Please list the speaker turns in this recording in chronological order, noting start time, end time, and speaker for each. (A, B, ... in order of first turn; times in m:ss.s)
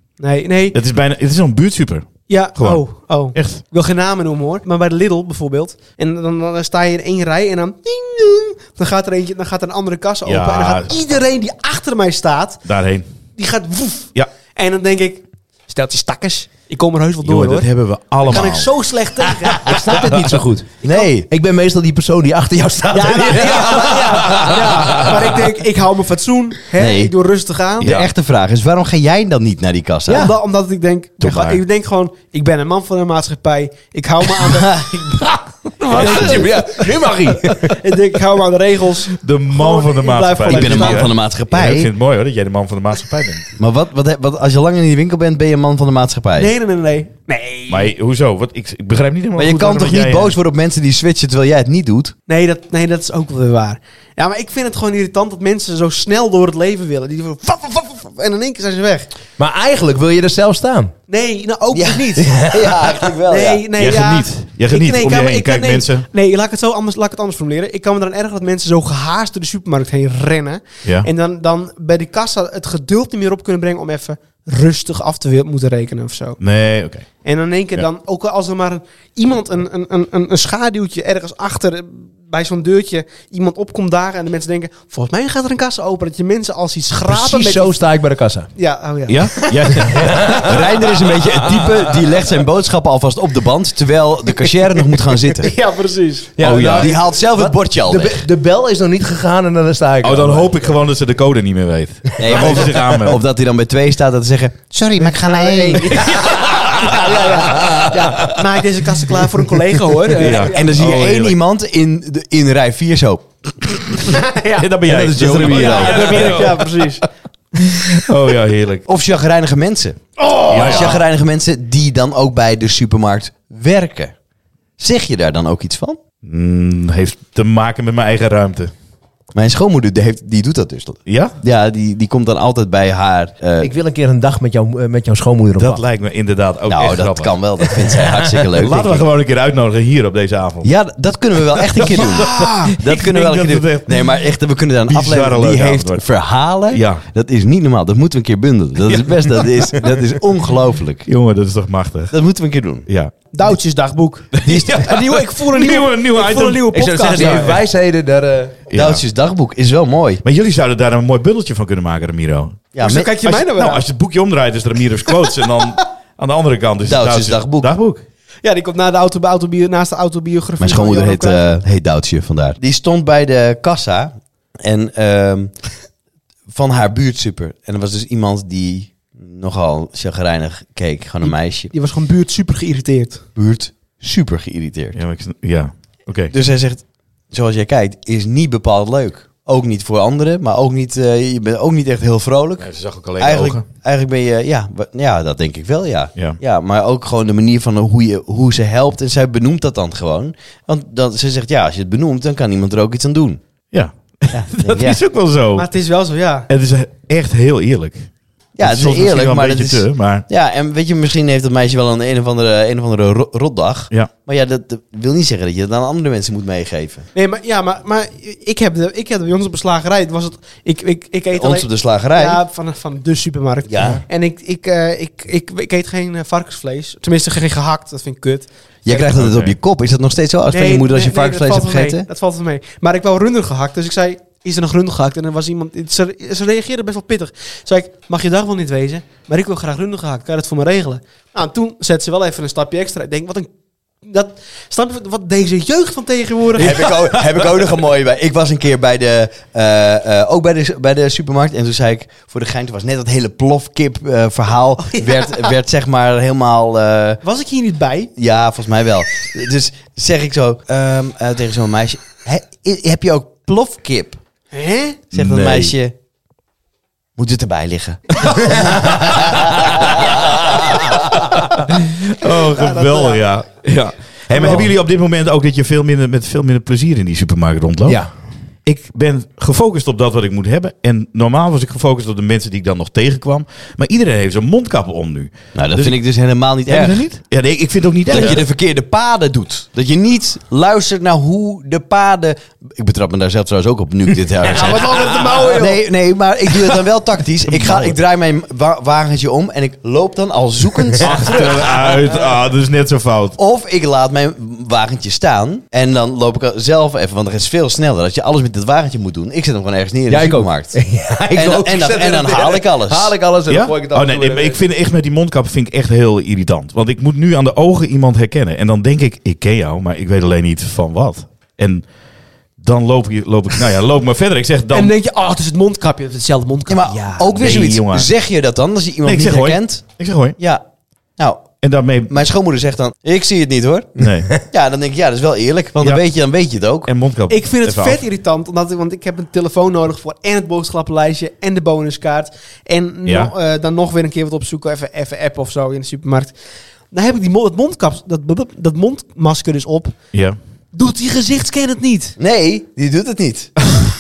0:00.2-0:00.8 A
0:00.7-0:03.6 B
0:02.3-0:12.6 A
0:10.2-0:10.9 B
0:12.7-0:13.1 B
0:13.4-0:17.7 A
0:17.2-0:18.7 B
0:18.2-0:20.1 A
0:19.6-0:20.7 C
0:20.8-0:21.1 A
0:20.8-0:21.3 D
0:21.3-0:25.4 C
0:22.9-0:28.0 A
0:26.8-0:27.1 D
0:27.8-0:28.1 B
0:27.8-0:30.3 D
0:30.1-0:30.3 C
0:30.1-0:41.1 A
0:31.2-0:31.6 B
0:34.4-0:35.2 D
0:35.9-0:37.8 C
0:36.0-0:36.4 B
0:39.2-0:43.5 B
0:40.5-0:41.9 D
0:43.6-0:46.5 D
0:46.4-0:47.9 A
0:47.7-0:50.4 B
0:49.4-0:52.1 D
0:52.3-0:59.1 A
0:59.4-1:00.9 C
1:01.1-1:02.3 A
1:01.7-1:03.7 D
1:02.2-1:02.9 C
1:03.3-1:16.4 A
1:03.8-1:06.1 B
1:10.8-1:11.1 B
1:16.4-1:17.1 B
1:17.2-1:27.8 A
1:27.1-1:28.5 C
1:28.6-1:30.1 A
1:29.1-1:30.5 B
1:29.9-1:30.5 C
1:30.3-1:35.5 D
1:35.3-1:36.3 A
1:36.4-1:40.8 C
1:36.4-1:36.9 B
1:36.4-1:38.3 D
1:40.0-1:43.2 B
1:42.2-1:46.1 D
1:45.0-1:46.3 C
1:45.1-1:50.7 A
1:46.6-1:47.0 B
1:50.1-1:51.4 B
1:50.3-1:53.3 D
1:54.0-1:54.7 A
1:54.6-1:56.9 B
1:54.9-1:56.5 C
1:54.9-1:56.4 D
1:55.4-1:57.0 A
1:57.6-1:58.9 B
1:58.9-2:04.1 D
2:00.2-2:01.0 A
2:00.5-2:01.0 B
2:04.8-2:06.0 D
2:06.2-2:08.7 B
2:09.3-2:13.7 D
2:11.1-2:11.4 B
2:13.6-2:15.8 C
2:15.6-2:17.9 B
2:16.7-2:19.1 D
2:18.6-2:20.7 B
2:20.6-2:31.1 D
2:21.7-2:24.2 B
2:24.9-2:26.0 B
2:26.7-2:27.0 B
2:28.9-2:30.0 B
2:31.0-2:32.2 B
2:32.1-2:32.9 D
2:32.9-2:33.1 B
2:33.3-2:37.6 A
2:34.3-2:37.6 B
2:36.7-2:38.6 C
2:38.7-2:39.0 B
2:38.7-2:40.2 D
2:40.2-2:42.7 B
2:42.7-2:43.1 D
2:42.8-2:43.9 A
2:43.2-2:48.0 B
2:45.1-2:45.6 A
2:46.8-2:47.7 D
2:48.4-2:51.6 A
2:50.6-2:55.5 D
2:56.5-3:01.7 D
3:01.2-3:03.2 A
3:03.4-3:05.0 D
3:04.9-3:06.3 B
3:06.3-3:23.4 D
3:12.6-3:13.6 B
3:23.7-3:25.7 B
3:24.3-3:25.0 D
3:25.6-3:26.5 A
3:26.5-3:28.1 B
3:28.6-3:37.1 D
3:28.6-3:30.3 B
3:37.2-3:49.1 A
3:41.3-3:42.4 D
3:43.7-3:44.0 D
3:48.8-3:52.1 D
3:49.1-3:49.5 B
3:50.5-4:03.5 A
4:04.0-4:07.0 A
4:06.5-4:17.2 D
4:14.9-4:15.5 A
4:17.2-4:18.1 A
4:18.2-4:24.2 D
4:24.5-4:25.0 A
4:25.1-4:25.7 B
4:25.1-4:25.9 D
4:27.2-4:30.2 D
4:28.4-4:29.2 B
4:31.3-4:38.0 B
4:32.4-4:33.2 A
4:34.3-4:34.7 A
4:38.6-4:46.0 B
4:45.6-4:47.0 D
4:46.6-4:48.4 B
4:48.1-5:02.3 D
4:54.4-4:55.8 A
4:57.5-4:58.0 B
5:01.0-5:03.4 B
5:03.4-5:13.1 D
5:10.1-5:14.6 C
5:13.5-5:21.8 B
5:22.6-5:24.9 B
5:24.7-5:27.3 A
5:26.7-5:29.8 D
5:27.3-5:28.1 B
5:29.0-5:30.4 B
5:30.4-5:30.6 D
5:31.2-5:31.5 D
5:31.6-5:32.2 B
5:32.1-5:36.9 D
5:34.0-5:34.3 B
5:36.9-5:38.0 B
5:37.3-5:46.4 A
5:43.0-5:43.3 B
5:46.9-5:50.0 A
5:50.7-5:52.2 A
5:52.2-5:53.5 D